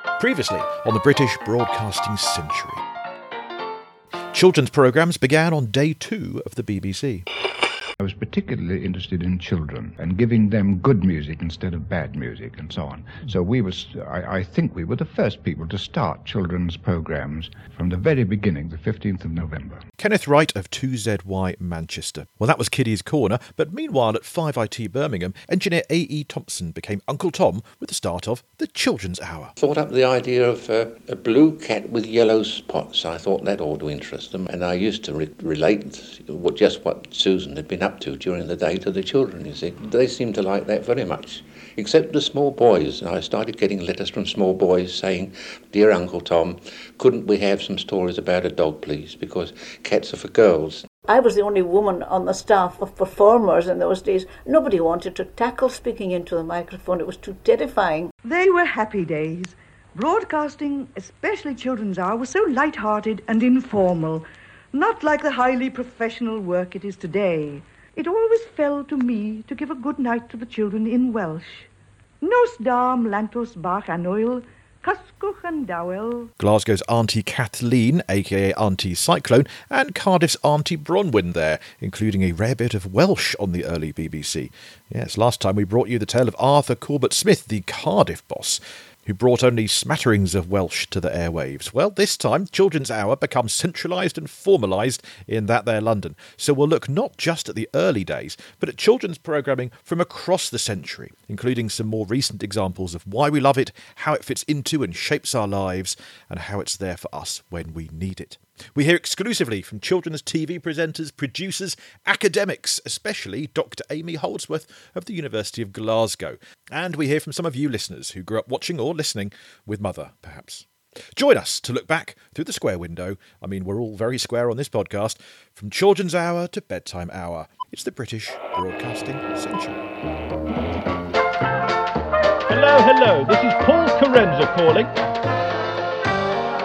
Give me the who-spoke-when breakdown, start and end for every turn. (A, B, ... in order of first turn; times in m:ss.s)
0:00.2-0:02.8 A
0:04.3-0:07.2 A
0:08.0-0:19.8 B
0:20.0-0:29.5 A
0:29.6-0:50.9 C
0:51.1-0:58.1 D
0:58.2-1:11.7 E
1:12.2-1:16.3 E
1:16.4-2:09.8 A
2:12.5-2:14.9 F